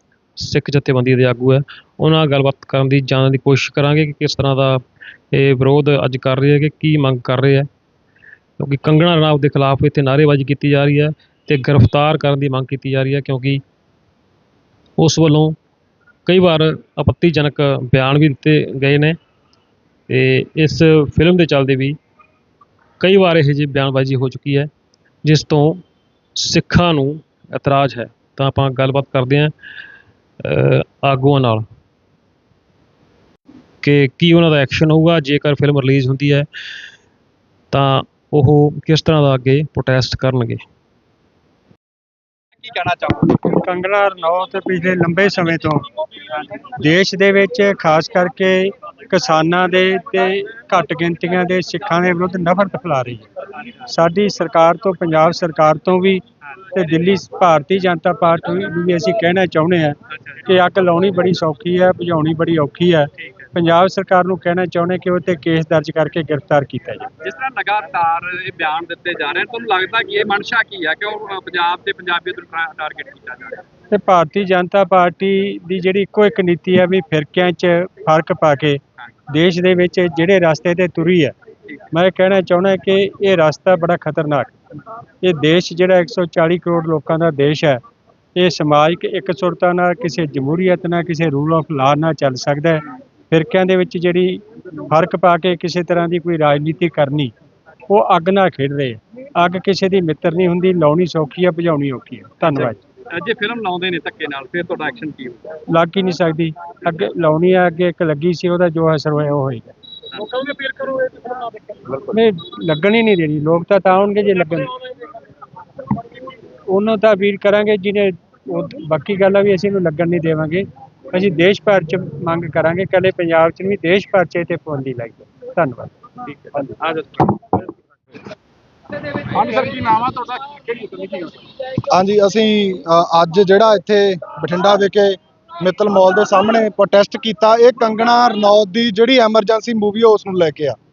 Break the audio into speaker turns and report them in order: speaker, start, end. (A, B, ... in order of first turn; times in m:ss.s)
0:00.4-0:04.8 A
0:05.3-0:07.7 A
0:08.6-0:13.6 A
0:15.0-0:15.6 A
0:16.3-0:19.2 A
0:20.1-0:22.0 A
0:23.0-0:24.7 A
0:25.2-0:25.8 A
0:26.4-0:29.5 A
0:30.4-0:31.6 A
0:33.8-0:36.5 A
0:37.7-0:40.6 A
0:42.6-0:43.3 B
0:43.3-0:45.8 C
0:46.8-0:53.3 C
0:53.9-0:56.2 C
0:56.7-1:07.1 C
1:07.2-1:13.6 B
1:13.9-1:21.4 C
1:21.9-1:24.5 C
1:25.2-1:27.8 C
1:28.4-1:37.3 C
1:37.9-1:42.8 C
1:42.5-1:45.4 B
1:45.7-1:49.7 C
1:50.2-1:51.5 A
1:51.9-1:54.7 C
1:56.7-2:05.9 C
2:06.4-2:07.4 B
2:09.2-2:11.6 B
2:11.9-2:20.8 D